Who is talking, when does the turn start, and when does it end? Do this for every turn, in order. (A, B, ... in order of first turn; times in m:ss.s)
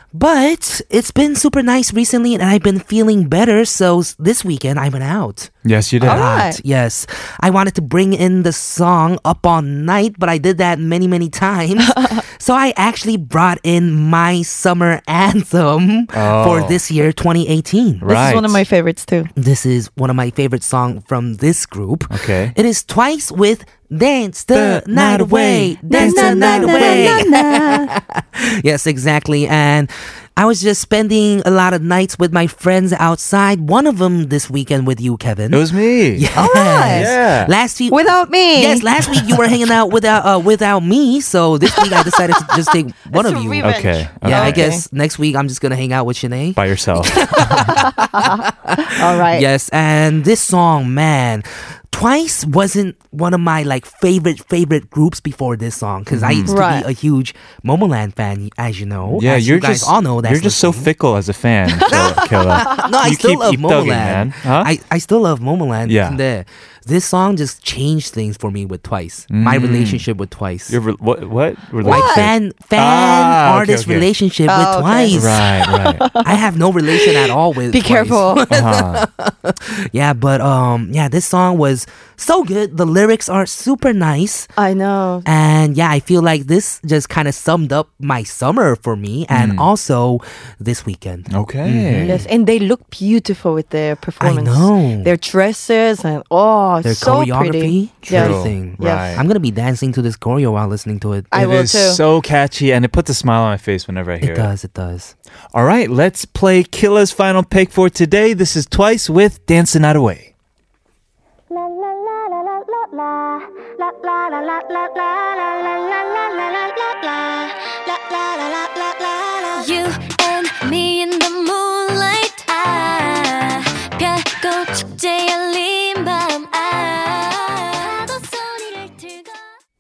0:00.1-0:18.0 A
0:05.6-0:06.3 B
0:06.0-0:06.6 C
0:11.8-0:12.2 C
0:16.1-0:16.8 B
0:18.0-0:18.6 B
0:18.0-0:19.3 C
0:19.4-1:00.9 A
0:22.1-0:22.6 B
0:24.5-0:27.2 B
0:25.9-0:27.9 C
0:35.5-0:36.3 B
0:36.4-0:37.1 C
0:36.9-0:37.5 B
0:37.9-0:38.9 C
0:41.7-0:44.8 C
0:43.6-0:44.7 B
0:46.6-0:47.8 B
0:47.8-0:49.5 C
0:56.1-0:56.6 B
0:56.5-0:56.9 C
0:59.1-1:04.7 B
1:01.8-1:02.8 C
1:01.9-1:10.8 A
1:05.9-1:06.2 B
1:09.3-1:10.0 B
1:10.7-1:14.1 B
1:11.8-1:15.4 A
1:11.8-1:12.2 C
1:14.5-1:16.3 C
1:15.1-1:16.1 B
1:16.2-1:24.5 A
1:16.9-1:18.5 C
1:18.5-1:19.0 B
1:24.6-1:25.3 C
1:25.2-1:32.3 A
1:29.3-1:29.7 B
1:31.3-1:32.2 B
1:32.0-1:39.2 C
1:34.2-1:35.1 A
1:36.8-1:41.3 A
1:38.1-1:39.2 B
1:41.3-1:42.0 C
1:41.3-1:44.5 B
1:44.2-1:45.1 A
1:45.5-1:50.3 B
1:51.5-2:09.5 D